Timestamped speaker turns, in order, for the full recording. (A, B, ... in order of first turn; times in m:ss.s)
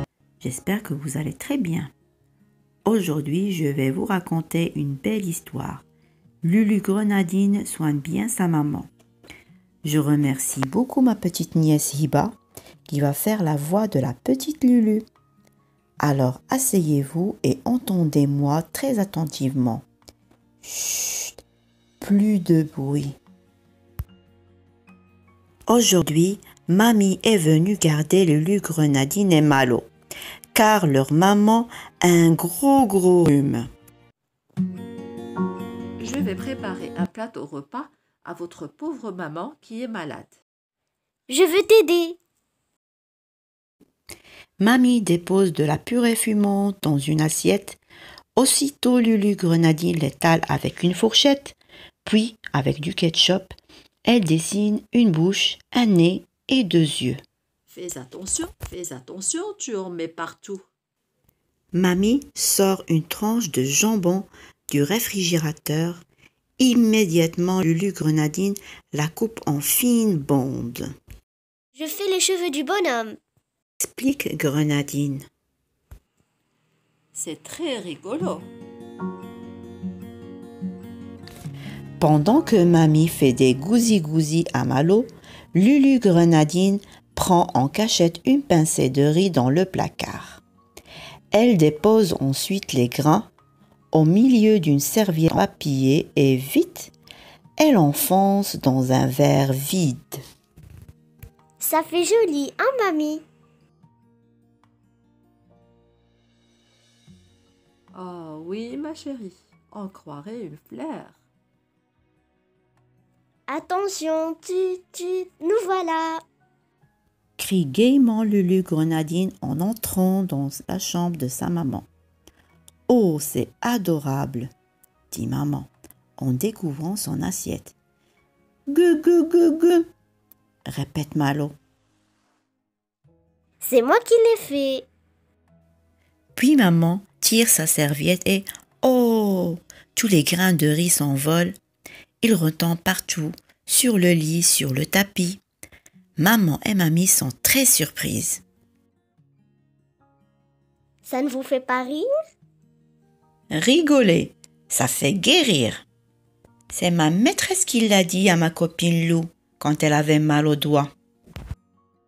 0:00.4-0:01.9 A
0:02.8-0:05.8 A
0:06.4-0:08.9 A
0:09.8-0:12.4 A
0:12.9-0:15.0 A
0:16.0-0:19.8 A
0:20.6-0:21.4 A
0:22.0-0:23.2 A
0:25.7-0:29.9 A
0:30.5-0:33.7 A
0:36.0-0:40.4 B
0:41.3-0:42.2 C
0:44.6-0:47.8 A
0:48.4-0:53.5 A
0:54.1-0:57.2 A
0:57.7-1:00.7 B
1:01.7-1:06.0 A
1:06.6-1:10.9 A
1:11.8-1:13.2 C
1:13.8-1:15.2 A
1:17.1-1:18.5 B
1:22.0-1:30.4 A
1:31.3-1:33.3 A
1:33.9-1:36.9 A
1:37.6-1:40.2 A
1:41.6-1:43.2 C
1:47.9-1:51.2 B
1:53.5-1:56.2 C
1:57.4-2:01.9 A
2:02.9-2:04.5 A
2:05.1-2:07.8 A
2:08.7-2:09.9 A
2:10.7-2:11.6 A
2:13.6-2:14.9 C
2:16.4-2:21.5 A
2:22.2-2:25.4 A
2:26.2-2:28.4 A
2:31.1-2:32.1 C
2:33.5-2:35.8 A
2:36.7-2:40.9 A